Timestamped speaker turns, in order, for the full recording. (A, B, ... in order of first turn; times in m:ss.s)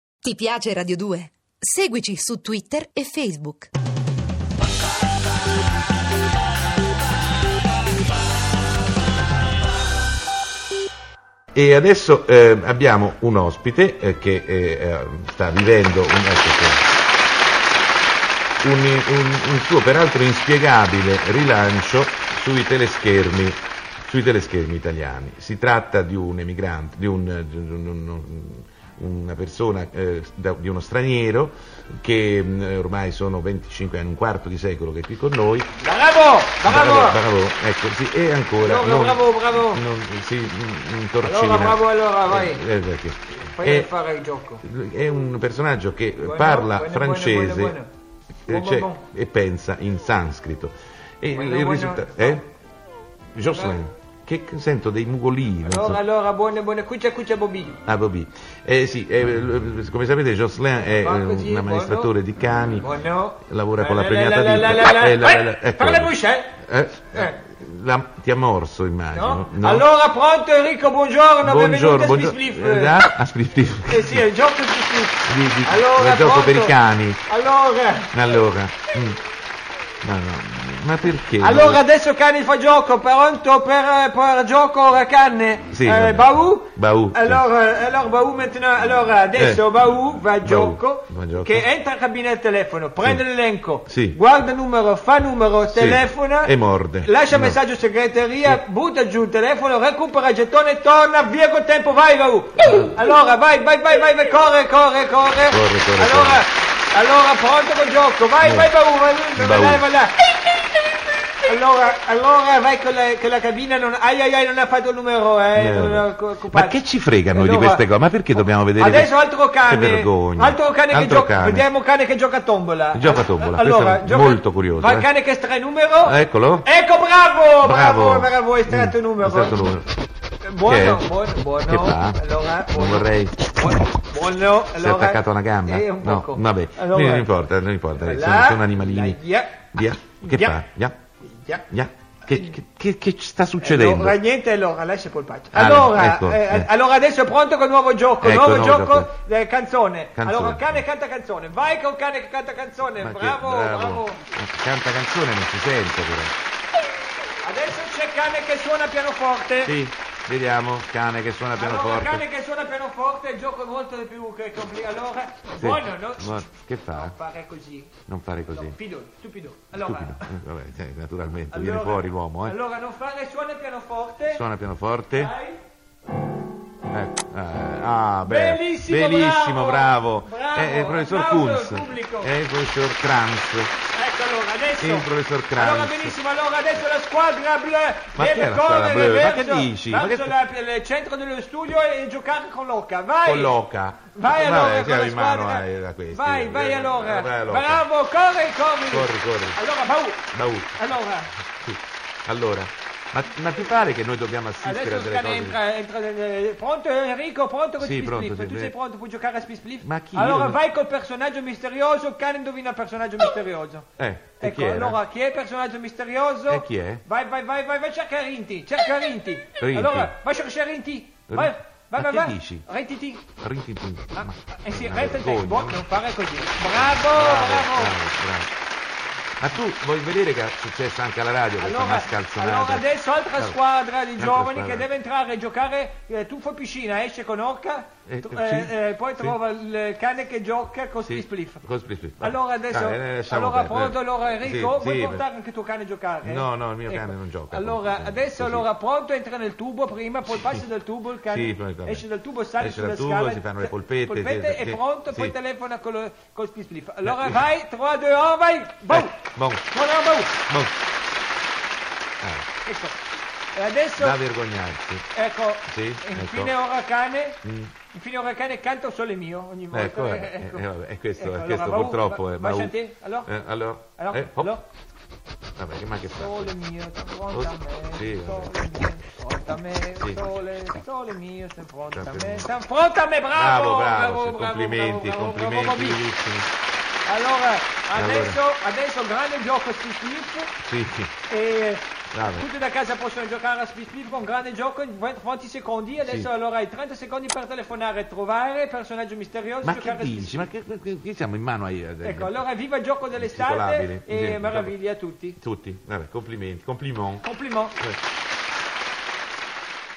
0:00.2-0:03.7 A
0:11.5-0:16.8 B
0:18.6-0:35.7 B
0:35.8-0:37.2 C
0:36.6-0:43.9 B
0:38.6-0:39.8 C
0:41.2-0:42.6 C
0:43.4-0:44.6 C
0:44.6-0:47.8 B
0:46.2-0:47.9 C
0:48.5-0:52.4 B
0:48.5-0:49.0 C
0:51.3-0:52.4 C
0:53.3-0:56.0 B
0:53.5-0:53.8 C
0:55.6-0:57.8 C
0:57.8-1:09.9 B
1:01.0-1:02.1 C
1:02.8-1:06.6 C
1:09.1-1:13.0 C
1:11.4-1:14.2 B
1:13.9-1:16.7 C
1:15.2-1:17.2 B
1:17.2-1:18.1 C
1:18.1-1:19.2 B
1:20.0-1:21.8 B
1:21.4-1:50.1 C
1:25.7-1:27.4 B
1:29.4-1:29.7 B
1:30.4-1:31.7 B
1:33.9-1:34.2 B
1:35.7-1:37.6 B
1:42.6-1:42.9 B
1:45.4-1:46.4 B
1:48.4-1:48.7 B
1:49.3-1:49.8 B
1:51.4-1:57.8 C
1:55.5-2:01.6 B
1:58.7-2:09.6 C
2:02.9-2:05.1 B
2:06.0-2:06.7 B
2:07.6-2:09.9 B
2:10.4-2:17.3 C
2:10.6-2:13.5 B
2:14.8-2:19.2 B
2:18.0-2:19.7 C
2:19.7-2:21.0 B
2:20.2-2:20.6 C
2:21.3-2:21.6 C
2:21.7-2:24.2 B
2:23.6-2:34.2 C
2:25.5-2:26.7 B
2:28.2-2:29.1 B
2:30.2-2:30.8 B
2:33.0-2:36.3 B
2:37.4-2:39.8 C
2:39.6-2:42.2 B
2:41.5-2:47.9 C
2:45.6-2:47.2 B
2:48.1-2:48.8 B
2:48.5-2:50.3 C
2:49.7-2:52.6 B
2:51.5-2:54.4 C
2:54.2-2:55.3 B
2:55.1-2:55.6 C
2:56.9-3:03.7 B
2:58.2-3:02.3 C
3:03.9-3:13.5 C
3:04.8-3:06.2 B
3:08.1-3:10.4 B
3:13.2-3:17.9 B
3:14.1-3:21.3 C
3:18.9-3:19.6 B
3:20.3-3:20.9 B
3:21.6-3:25.6 B
3:24.6-3:33.8 C
3:27.8-3:28.7 B
3:29.8-3:30.6 B
3:34.0-3:35.0 B
3:34.4-3:43.3 C
3:36.5-3:37.0 B
3:39.6-3:40.1 B
3:41.3-3:42.6 B
3:43.4-3:45.8 B
3:44.1-3:47.9 C
3:46.8-3:48.5 B
3:49.4-3:53.6 B
3:51.6-4:01.6 C
3:54.2-3:54.9 B
3:58.1-3:59.4 B
4:01.0-4:05.2 B
4:02.2-4:19.2 C
4:06.2-4:08.7 B
4:10.3-4:10.6 B
4:11.3-4:12.0 B
4:12.6-4:15.4 B
4:17.0-4:17.4 B
4:18.9-4:19.7 B
4:19.7-4:20.4 C
4:20.5-4:20.8 B
4:22.2-4:22.5 B
4:22.6-4:23.0 C
4:23.5-4:24.2 C
4:24.0-4:25.1 B
4:25.1-4:27.4 C
4:25.7-4:26.5 B
4:27.4-4:27.7 B
4:27.9-4:33.3 C
4:29.7-4:32.7 B
4:33.3-4:34.6 B
4:34.0-4:34.6 C
4:35.6-4:36.5 B
4:36.1-4:46.0 C
4:37.3-4:38.7 B
4:41.9-4:42.5 B
4:43.3-4:46.5 B
4:47.0-4:50.5 C
4:47.9-4:48.4 B
4:50.6-4:51.1 B
4:51.3-5:00.5 C
4:52.1-4:52.5 B
4:56.0-4:56.3 B
4:59.6-5:02.4 B
5:02.0-5:05.4 C
5:03.1-5:04.7 B
5:05.4-5:07.2 B
5:07.2-5:07.8 C